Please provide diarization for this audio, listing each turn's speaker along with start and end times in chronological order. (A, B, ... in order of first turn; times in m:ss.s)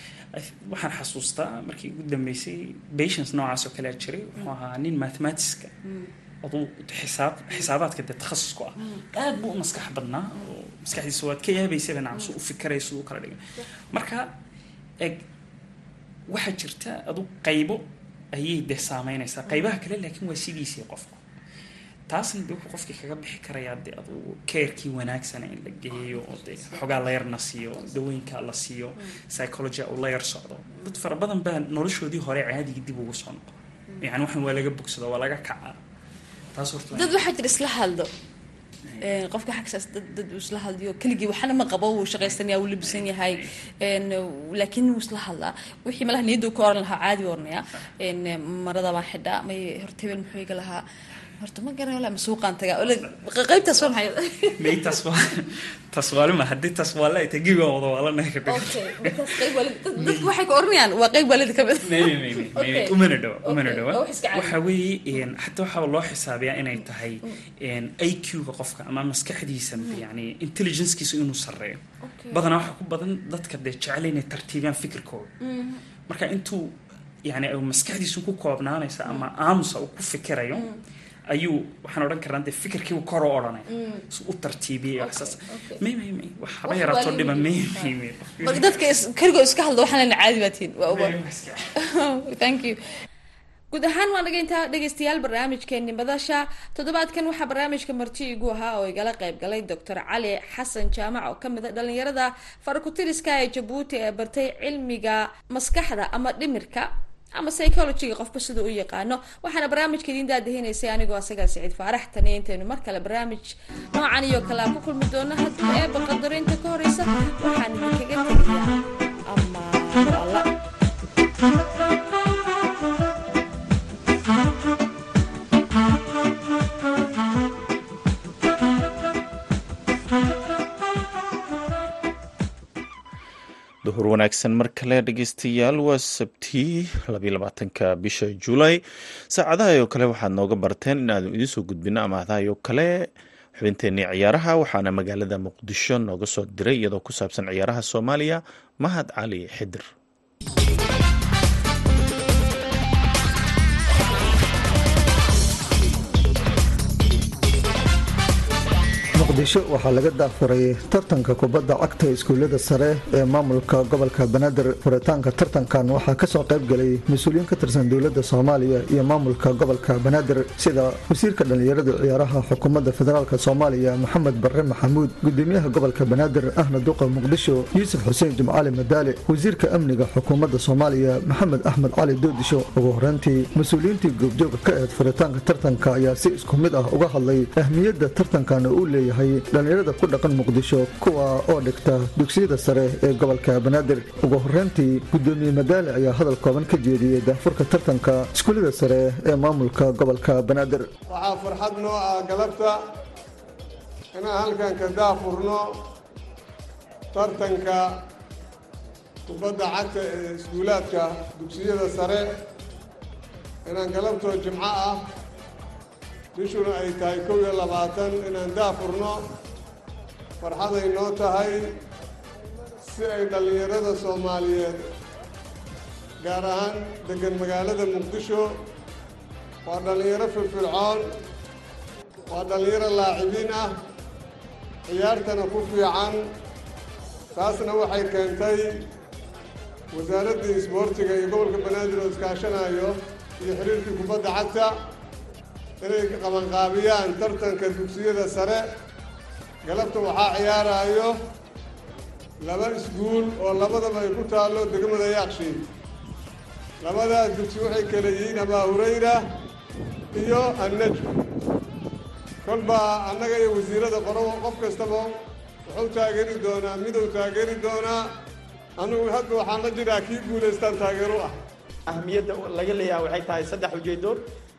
0:00.3-0:05.7 A
0:05.8-0:06.1 B
0:06.4-0:14.3 A
0:16.3-0:21.2 A
0:22.1-0:35.8 A
0:25.9-0:26.8 B
0:36.5-0:37.2 A
0:36.9-0:38.1 B
0:39.0-0:50.8 B
0:42.2-0:43.4 A
0:51.4-0:54.8 B
0:54.6-1:00.3 A
0:58.4-1:04.6 B
1:01.8-1:11.8 A
1:12.0-1:12.5 B
1:12.3-1:15.3 A
1:15.4-1:15.8 B
1:16.1-1:20.7 A
1:21.3-1:28.8 A
1:23.7-1:24.0 B
1:25.0-1:25.8 B
1:26.6-1:31.1 B
1:30.9-1:31.7 A
1:31.8-1:32.8 B
1:33.7-2:00.4 B
2:13.8-2:29.9 C
2:39.1-3:20.9 D
3:21.1-3:22.8 E
3:24.1-3:25.8 E
3:27.1-3:27.9 E
3:29.3-3:32.2 E
3:33.6-3:35.0 E
3:36.3-3:39.2 E
3:40.4-3:41.6 E
3:42.8-3:44.8 E
3:46.2-3:48.5 E
3:49.6-3:51.1 E
3:52.3-3:53.7 E
3:54.9-3:56.2 E
3:57.3-3:58.7 E
3:59.9-4:04.7 E
4:05.8-4:08.6 E
4:09.6-4:11.1 E
4:12.4-4:15.6 E
4:16.8-4:19.2 E
4:20.1-4:21.3 E
4:22.4-4:25.1 E
4:25.7-4:28.1 E
4:28.8-4:31.3 E
4:31.9-4:34.2 F